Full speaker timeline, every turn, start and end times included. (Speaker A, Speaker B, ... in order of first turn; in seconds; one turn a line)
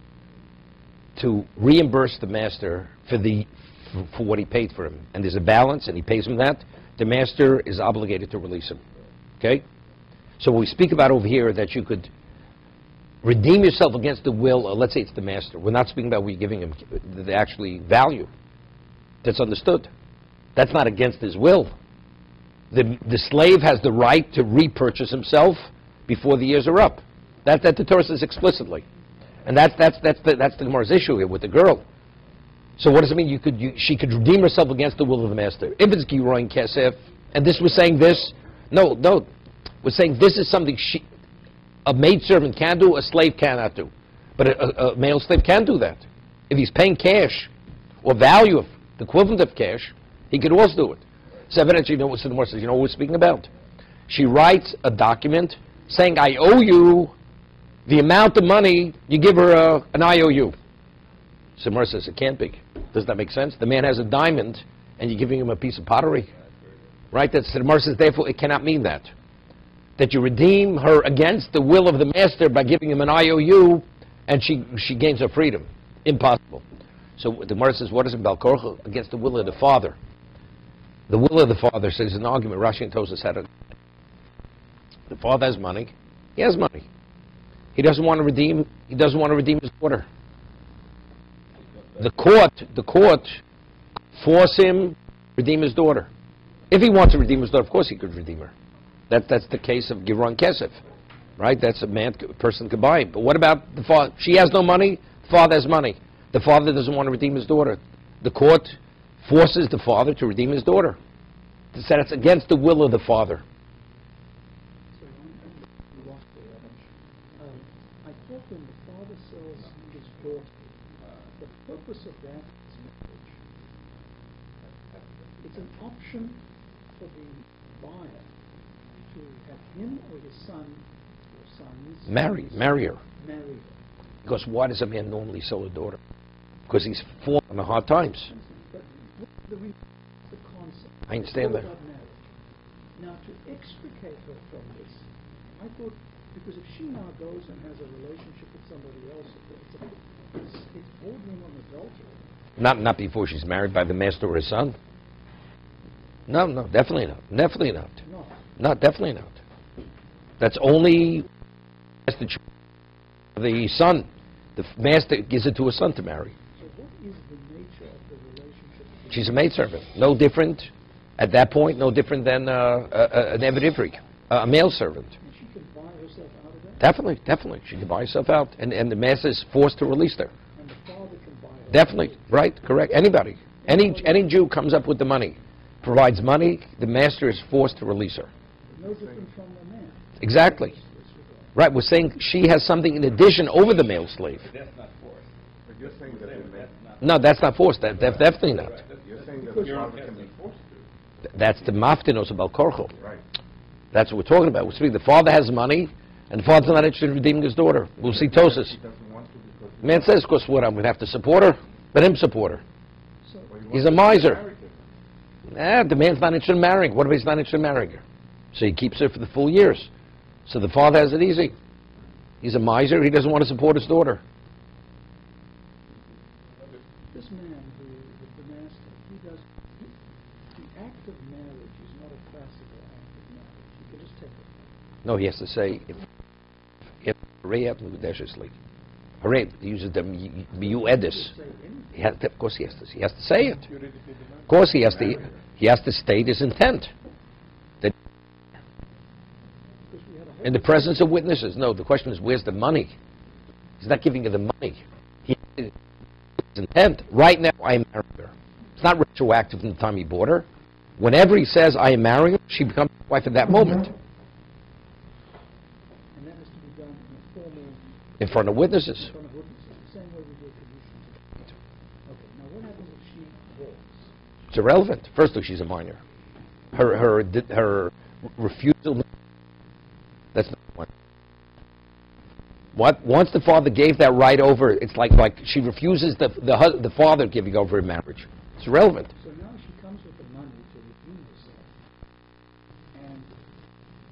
Speaker A: 1.1-8.8
Speaker A: 10.4-12.1
Speaker A: 13.2-18.3
Speaker A: 19.2-19.9
Speaker A: 20.6-21.7
Speaker A: 22.7-28.8
Speaker A: 29.4-31.8
Speaker A: 32.8-39.3
Speaker A: 39.8-41.0
Speaker A: 41.8-47.5
Speaker A: 48.0-53.5
Speaker A: 54.1-57.1
Speaker A: 57.9-60.5
Speaker A: 61.6-66.3
Speaker B: 66.2-67.0
Speaker A: 67.1-69.1
Speaker A: 70.0-76.6
Speaker A: 77.2-80.0
Speaker A: 81.1-83.5
Speaker A: 85.1-86.8
Speaker A: 87.7-90.1
Speaker B: 91.6-92.0
Speaker A: 92.0-93.4
Speaker A: 94.1-96.1
Speaker A: 96.7-98.5
Speaker A: 99.1-100.8
Speaker A: 101.4-111.0
Speaker A: 111.7-113.4
Speaker C: 114.9-120.7
Speaker C: 121.4-123.4
Speaker C: 125.4-126.4
Speaker C: 126.9-128.3
Speaker C: 129.1-133.8
Speaker A: 132.1-133.0
Speaker A: 134.2-136.0
Speaker A: 136.7-138.3
Speaker C: 138.2-142.3
Speaker A: 141.1-141.7
Speaker C: 142.9-152.2
Speaker A: 152.6-154.7
Speaker A: 156.3-157.9
Speaker C: 158.0-158.4
Speaker A: 158.6-159.4
Speaker A: 160.4-161.2
Speaker A: 162.1-162.4
Speaker A: 163.3-166.3
Speaker C: 166.5-169.8
Speaker A: 169.1-175.1
Speaker C: 175.2-176.9
Speaker A: 176.8-180.3
Speaker C: 180.6-182.3
Speaker A: 181.7-188.3
Speaker C: 183.6-184.4
Speaker C: 188.7-191.6
Speaker A: 190.2-190.7
Speaker A: 191.5-194.5
Speaker B: 193.2-200.3
Speaker D: 195.7-196.7
Speaker A: 197.0-198.7
Speaker D: 198.7-200.9
Speaker C: 199.4-199.9
Speaker A: 201.3-202.9
Speaker D: 202.9-203.2
Speaker A: 203.9-208.7
Speaker D: 208.0-210.2
Speaker A: 209.8-212.6
Speaker C: 213.2-213.5
Speaker D: 213.5-214.8
Speaker A: 213.7-214.4
Speaker A: 215.5-219.9
Speaker A: 220.4-221.5
Speaker A: 222.4-224.2
Speaker C: 227.1-229.9
Speaker C: 230.5-234.6
Speaker A: 235.0-236.0
Speaker A: 237.0-238.5
Speaker A: 239.2-241.3
Speaker C: 240.6-242.1
Speaker A: 241.9-243.6
Speaker D: 243.7-245.2
Speaker A: 244.5-246.9
Speaker C: 249.9-251.2
Speaker A: 250.4-252.9
Speaker A: 253.8-255.7
Speaker A: 256.5-260.4
Speaker A: 261.0-263.9
Speaker C: 266.1-271.5
Speaker A: 268.2-269.1
Speaker C: 272.1-274.1
Speaker A: 274.5-276.0
Speaker A: 276.7-279.0
Speaker A: 280.3-280.9
Speaker A: 282.7-289.1
Speaker C: 289.2-291.7
Speaker C: 292.9-293.3